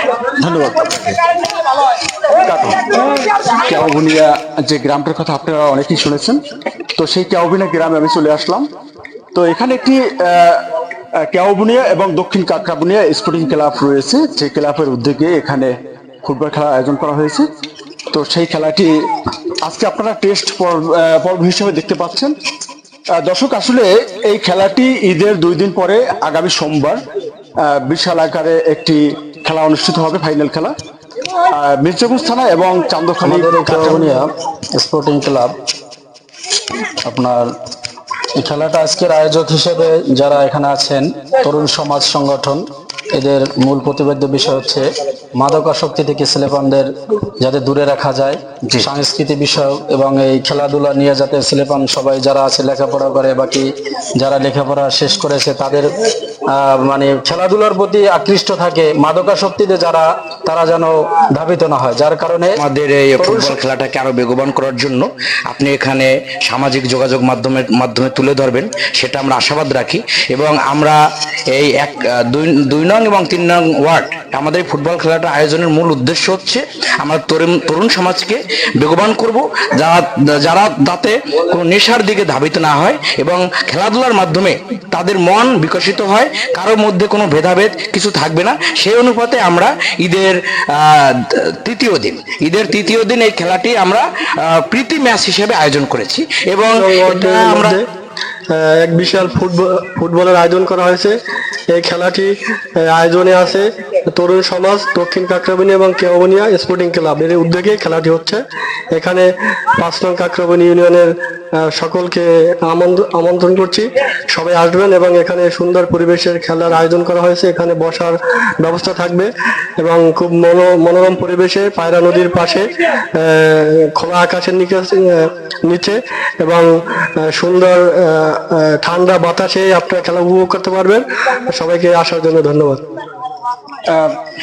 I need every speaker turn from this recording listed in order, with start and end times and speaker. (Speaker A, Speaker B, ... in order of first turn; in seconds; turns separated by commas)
Speaker A: 0.3-1.2, Speaker A: 2.3-6.4, Speaker A: 7.0-8.7, Speaker A: 9.3-10.6, Speaker A: 11.2-17.5, Speaker A: 18.1-18.9, Speaker A: 19.6-22.3, Speaker A: 23.2-27.0, Speaker A: 27.6-30.7, Speaker A: 31.5-34.1, Speaker B: 33.2-35.5, Speaker B: 37.0-37.5, Speaker B: 38.3-42.6, Speaker B: 43.1-55.9, Speaker A: 48.6-48.9, Speaker B: 56.5-62.6, Speaker C: 62.5-71.0, Speaker B: 63.2-63.5, Speaker C: 71.5-97.8, Speaker D: 96.7-97.8, Speaker D: 98.5-101.1, Speaker D: 101.7-108.4, Speaker D: 108.9-109.3, Speaker D: 109.8-126.7, Speaker D: 127.2-132.8, Speaker A: 133.9-134.2